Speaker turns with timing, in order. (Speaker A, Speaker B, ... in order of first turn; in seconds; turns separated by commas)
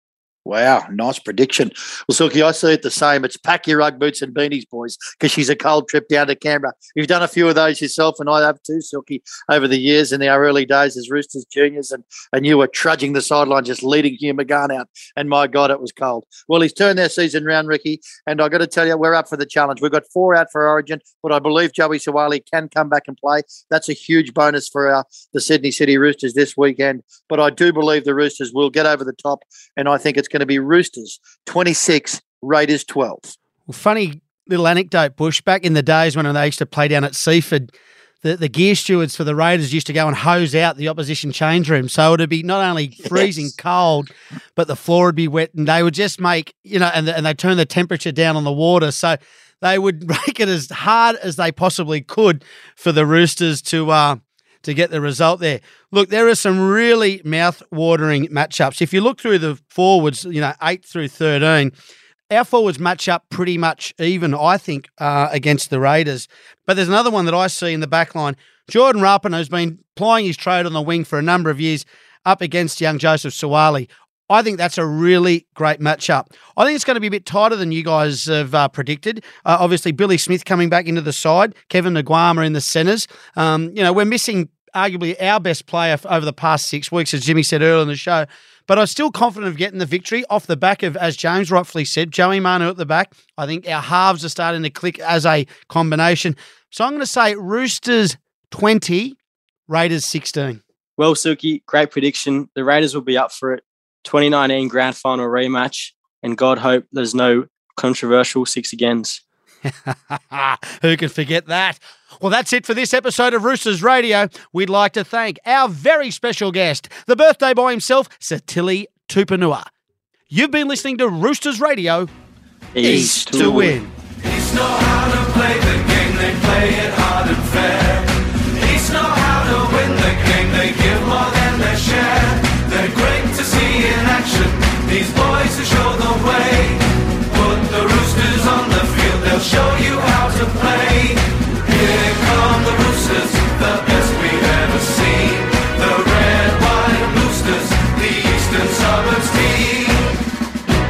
Speaker A: 0.5-33.3, Speaker B: 33.7-37.7, Speaker B: 38.2-61.7, Speaker B: 62.3-99.2, Speaker B: 99.7-100.6, Speaker C: 101.0-109.2, Speaker B: 109.7-119.7, Speaker B: 120.3-122.1, Speaker C: 122.8-123.7, Speaker B: 122.8-123.9, Speaker A: 122.8-123.7, Speaker D: 124.2-150.2